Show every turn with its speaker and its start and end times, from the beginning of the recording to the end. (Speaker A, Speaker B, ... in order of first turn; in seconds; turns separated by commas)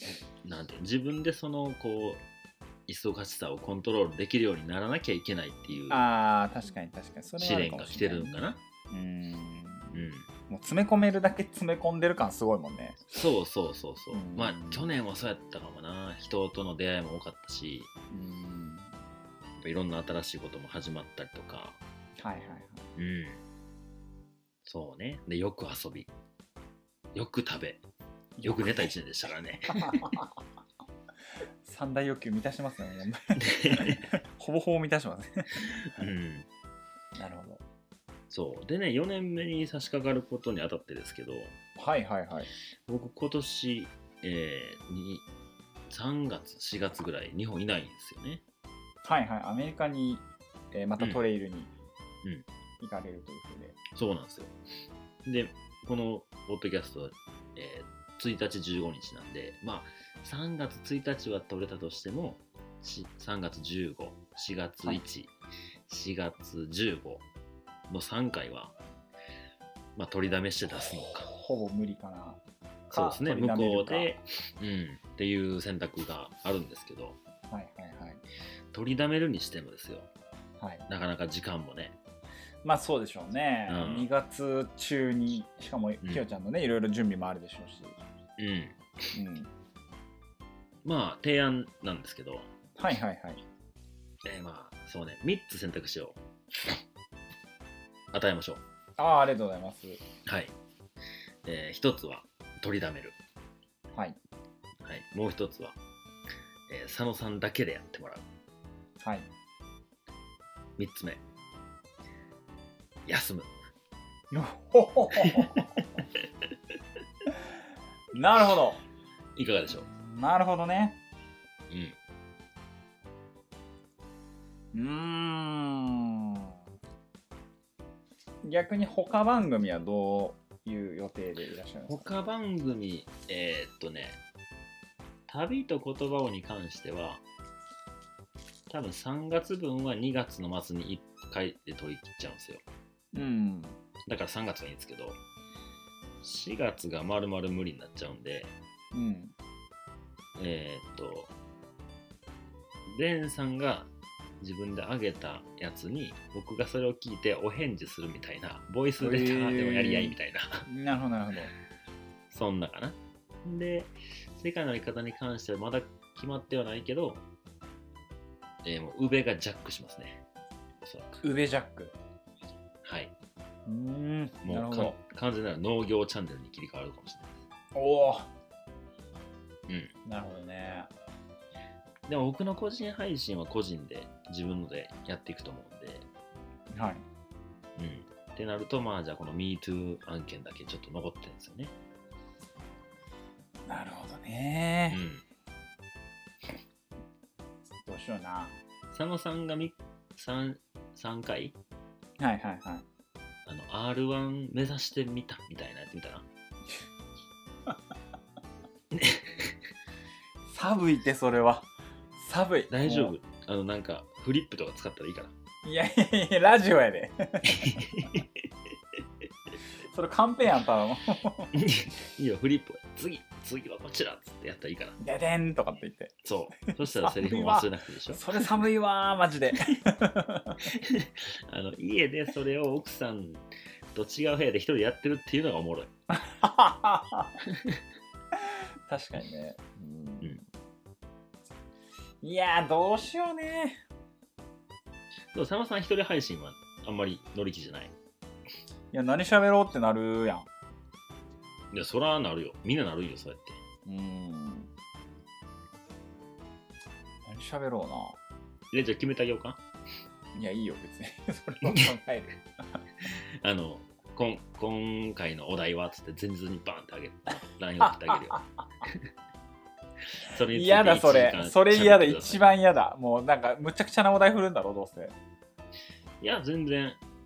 Speaker A: 0.4-2.2, Speaker A: 2.9-6.0, Speaker B: 5.9-10.0, Speaker A: 7.4-8.6, Speaker A: 9.9-10.3, Speaker B: 10.5-13.1, Speaker A: 13.1-17.9, Speaker B: 14.1-14.9, Speaker B: 18.1-18.9, Speaker A: 19.6-21.8, Speaker B: 22.2-22.9, Speaker A: 22.9-23.4, Speaker A: 24.6-26.1, Speaker A: 27.1-27.8, Speaker B: 28.4-28.9, Speaker A: 28.4-30.1, Speaker B: 29.7-30.3, Speaker B: 31.6-35.7, Speaker A: 33.4-34.0, Speaker A: 35.9-36.5, Speaker B: 37.2-37.6, Speaker A: 38.3-41.5, Speaker B: 41.8-42.5, Speaker A: 42.9-45.3, Speaker A: 45.9-48.4, Speaker B: 49.0-51.7, Speaker B: 52.8-53.8, Speaker A: 53.9-54.5, Speaker A: 55.2-65.3, Speaker A: 65.9-67.2, Speaker A: 67.9-68.7, Speaker A: 70.0-71.3, Speaker B: 71.3-72.4, Speaker A: 72.9-77.2, Speaker B: 72.9-74.1, Speaker B: 77.5-78.2, Speaker A: 78.7-80.1, Speaker B: 80.6-80.9, Speaker A: 80.9-82.0, Speaker B: 82.6-88.0, Speaker A: 83.7-84.1, Speaker A: 88.4-88.8, Speaker B: 89.1-89.5, Speaker A: 90.8-92.5, Speaker B: 92.8-93.4, Speaker A: 94.2-96.2, Speaker A: 98.1-98.6, Speaker B: 99.0-100.0, Speaker A: 100.3-100.5, Speaker A: 101.5-103.2, Speaker A: 104.8-105.8, Speaker A: 106.7-108.2, Speaker B: 109.0-109.3, Speaker A: 110.8-111.2, Speaker A: 113.0-113.5, Speaker B: 114.3-115.8, Speaker A: 115.2-116.0, Speaker B: 118.1-118.8, Speaker A: 119.4-119.9, Speaker B: 119.8-121.0, Speaker A: 121.7-122.0, Speaker B: 124.7-126.4, Speaker B: 128.4-132.1, Speaker A: 131.9-134.2, Speaker A: 135.3-137.2, Speaker A: 138.7-142.6, Speaker B: 143.1-143.8, Speaker A: 144.1-145.2, Speaker A: 146.2-148.5, Speaker B: 148.9-149.3, Speaker A: 150.4-151.3, Speaker A: 152.9-153.9, Speaker A: 154.4-160.7, Speaker B: 159.0-160.1, Speaker B: 160.7-161.5, Speaker A: 162.3-167.2, Speaker A: 168.6-170.2, Speaker A: 170.8-171.2, Speaker B: 171.2-171.9, Speaker A: 172.8-173.1, Speaker B: 173.7-175.0, Speaker A: 174.4-177.3, Speaker B: 177.7-178.3, Speaker A: 179.7-179.9, Speaker B: 180.1-180.9, Speaker A: 182.1-186.1, Speaker B: 186.7-187.0, Speaker A: 187.8-191.7, Speaker B: 193.7-195.0, Speaker A: 194.9-195.2, Speaker B: 197.9-198.6, Speaker A: 198.9-201.6, Speaker B: 202.2-202.8, Speaker A: 203.4-206.3, Speaker A: 208.9-209.6, Speaker B: 210.5-213.1, Speaker A: 212.7-215.3, Speaker B: 215.6-217.9, Speaker A: 217.4-218.4, Speaker B: 219.9-221.5, Speaker A: 221.5-225.0, Speaker B: 225.0-230.7, Speaker A: 226.2-228.5, Speaker A: 230.6-233.4, Speaker A: 233.9-235.9, Speaker B: 236.1-237.4, Speaker A: 237.4-237.8, Speaker B: 238.3-240.4, Speaker B: 242.2-243.8, Speaker A: 245.3-247.9, Speaker B: 248.9-250.5, Speaker A: 251.7-253.6, Speaker B: 253.9-254.7, Speaker B: 257.3-258.2, Speaker A: 258.7-259.6, Speaker B: 260.3-262.4, Speaker A: 261.6-261.9, Speaker A: 263.4-269.1, Speaker B: 267.8-268.4, Speaker A: 270.2-272.5, Speaker B: 270.5-275.1, Speaker A: 276.2-277.0